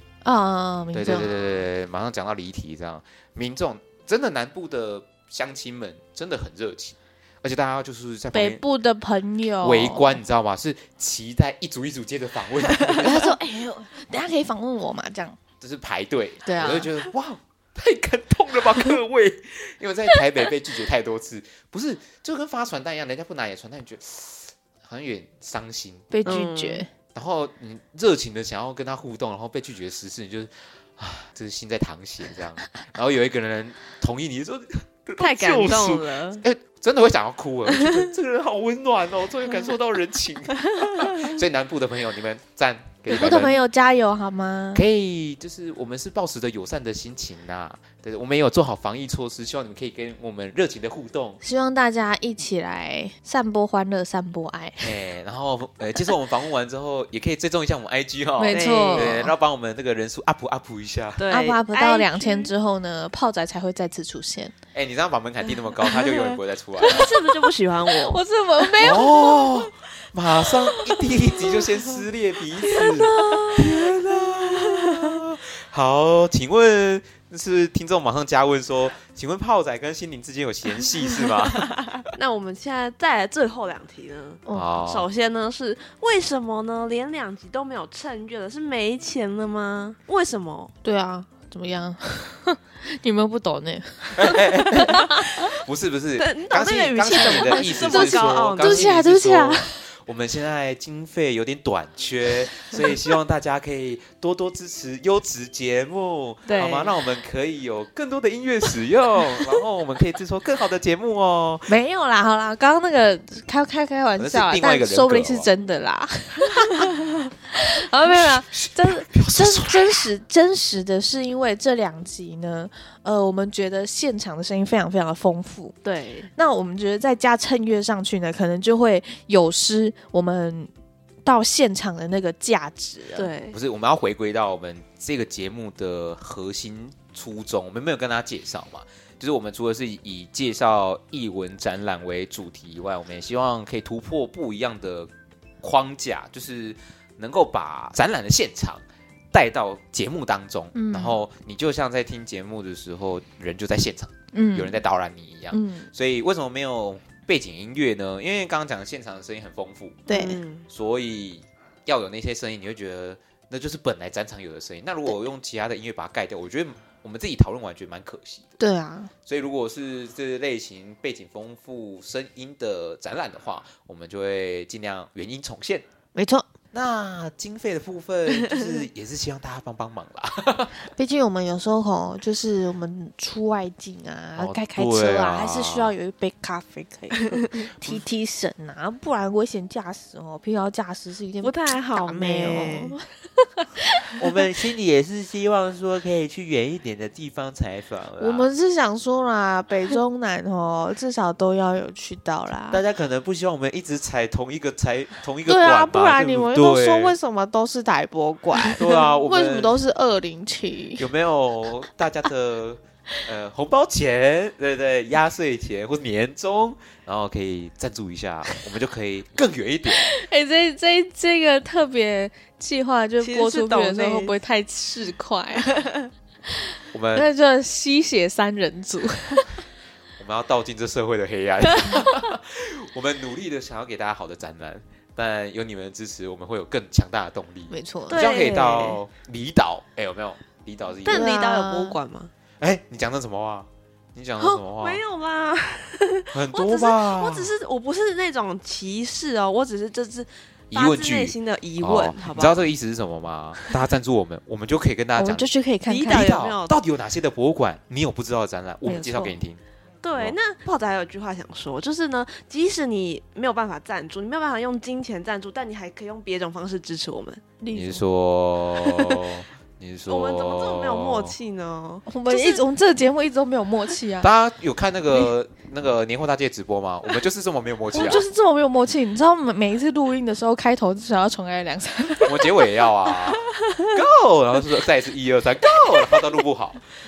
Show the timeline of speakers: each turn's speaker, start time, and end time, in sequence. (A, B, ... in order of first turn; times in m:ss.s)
0:00.2-0:01.3 A
0:00.9-0:08.6 B
0:08.3-0:10.2 A
0:09.6-0:13.3 B
0:13.0-0:15.4 A
0:15.6-0:26.3 B
0:16.4-0:16.9 A
0:26.1-0:26.9 A
0:26.2-0:26.8 C
0:27.1-0:43.6 B
0:35.2-0:36.4 C
0:37.7-0:38.0 C
0:43.1-0:44.8 A
0:44.7-0:51.4 B
0:51.4-0:54.9 A
0:54.8-1:01.3 B
0:58.4-0:59.3 A
0:58.5-0:59.2 C
1:01.2-1:02.5 C
1:01.3-1:04.5 A
1:04.7-1:07.1 B
1:06.8-1:08.2 C
1:08.0-1:09.5 A
1:08.8-1:22.0 B
1:12.7-1:13.6 A
1:22.0-1:30.7 C
1:24.5-1:25.1 B
1:30.8-1:35.3 A
1:34.2-1:51.7 B
1:36.2-1:38.9 C
1:37.1-1:39.7 A
1:46.5-1:46.9 C
1:51.7-1:56.9 A
1:54.2-1:55.5 B
1:57.5-2:05.8 A
1:58.0-2:00.1 B
2:05.8-2:06.3 C
2:06.3-2:10.7 A
2:11.2-2:13.3 A
2:13.2-2:13.6 C
2:13.5-2:25.1 B
2:25.6-2:40.0 B
2:30.7-2:31.2 A
2:34.3-2:34.8 A
2:35.5-2:35.9 A
2:40.1-2:40.4 A
2:40.1-2:40.6 C
2:40.7-2:48.5 B
2:48.6-2:49.1 A
2:49.2-2:55.8 B
2:56.1-2:56.4 A
2:56.7-3:00.8 B
3:00.9-3:13.0 A
3:04.4-3:05.9 B
3:11.4-3:13.0 C
3:13.6-3:14.0 A
3:14.2-3:18.5 B
3:18.2-3:22.8 A
3:22.7-3:27.2 B
3:25.5-3:31.0 A
3:28.7-3:29.7 B
3:31.0-3:40.1 B
3:40.0-3:45.8 A
3:43.2-3:44.3 C
3:45.7-3:46.0 C
3:46.9-3:47.3 B
3:47.1-3:49.5 A
3:50.2-4:01.3 B
3:57.7-3:58.2 A
3:58.1-3:59.0 C
4:01.0-4:02.3 C
4:01.1-4:02.0 A
4:02.6-4:05.0 B
4:04.4-4:12.7 C
4:06.3-4:07.5 B
4:10.7-4:15.5 B
4:15.2-4:16.3 A
4:15.8-4:16.8 C
4:16.0-4:19.6 B
4:18.8-4:19.3 A
4:20.0-4:27.4 C
4:27.6-4:28.0 A
4:27.7-4:31.4 B
4:30.1-4:32.6 C
4:32.1-4:34.3 A
4:34.2-4:38.2 B
4:37.9-4:42.6 A
4:42.2-4:46.8 B